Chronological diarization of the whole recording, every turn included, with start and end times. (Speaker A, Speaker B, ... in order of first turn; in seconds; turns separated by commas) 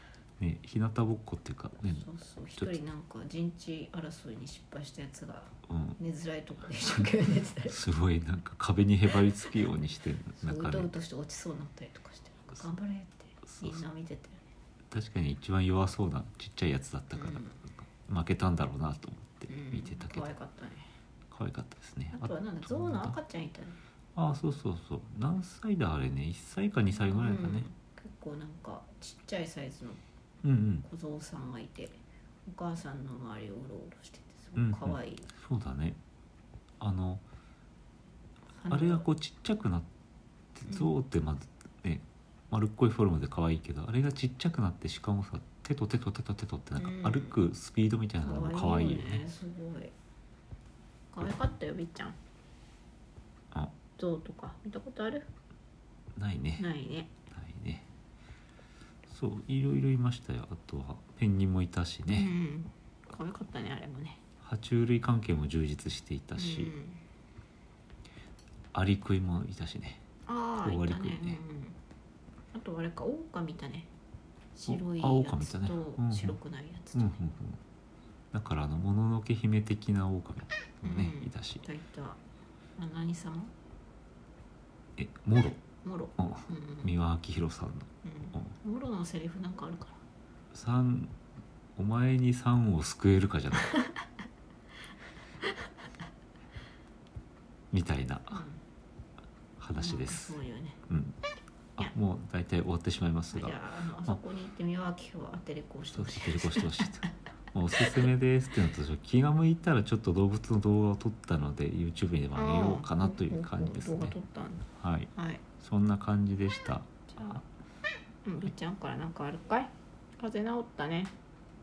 Speaker A: 0.4-2.8, Speaker B: 1.9-7.8, Speaker A: 5.7-6.0, Speaker A: 7.7-11.0, Speaker B: 10.4-14.4, Speaker A: 13.5-13.8, Speaker A: 14.9-20.3, Speaker B: 17.1-17.6, Speaker B: 19.5-20.9, Speaker A: 21.3-23.2, Speaker B: 22.1-23.8, Speaker A: 24.1-27.7, Speaker B: 27.0-30.0, Speaker A: 30.4-30.9, Speaker B: 30.8-35.3, Speaker A: 34.5-36.0, Speaker A: 36.8-37.2, Speaker B: 38.5-39.0, Speaker A: 38.7-39.9, Speaker A: 40.5-49.3, Speaker B: 46.8-47.4, Speaker B: 48.2-49.9, Speaker B: 51.1-52.2, Speaker B: 54.0-55.3, Speaker A: 56.1-56.7, Speaker B: 56.6-57.1, Speaker A: 57.3-57.9, Speaker A: 59.1-62.3, Speaker B: 62.1-64.2, Speaker A: 64.4-66.8, Speaker B: 66.4-67.0, Speaker A: 68.7-70.0, Speaker B: 70.2-71.8, Speaker A: 70.6-71.4, Speaker B: 72.5-73.9, Speaker B: 74.5-77.2, Speaker A: 74.7-76.4, Speaker A: 76.9-77.6, Speaker A: 78.3-81.6, Speaker B: 80.8-82.2, Speaker B: 82.8-83.5, Speaker A: 85.0-85.6, Speaker B: 85.8-87.0, Speaker A: 86.2-88.5, Speaker B: 88.0-90.0, Speaker A: 90.5-91.2, Speaker A: 91.8-93.7, Speaker B: 93.7-93.9, Speaker A: 97.7-98.4, Speaker B: 98.3-98.6, Speaker A: 99.6-101.2, Speaker B: 99.8-100.8, Speaker A: 101.8-104.2, Speaker B: 103.3-107.0, Speaker A: 105.9-114.2, Speaker B: 112.3-115.4, Speaker A: 114.8-117.4, Speaker B: 117.2-117.4, Speaker B: 118.2-121.1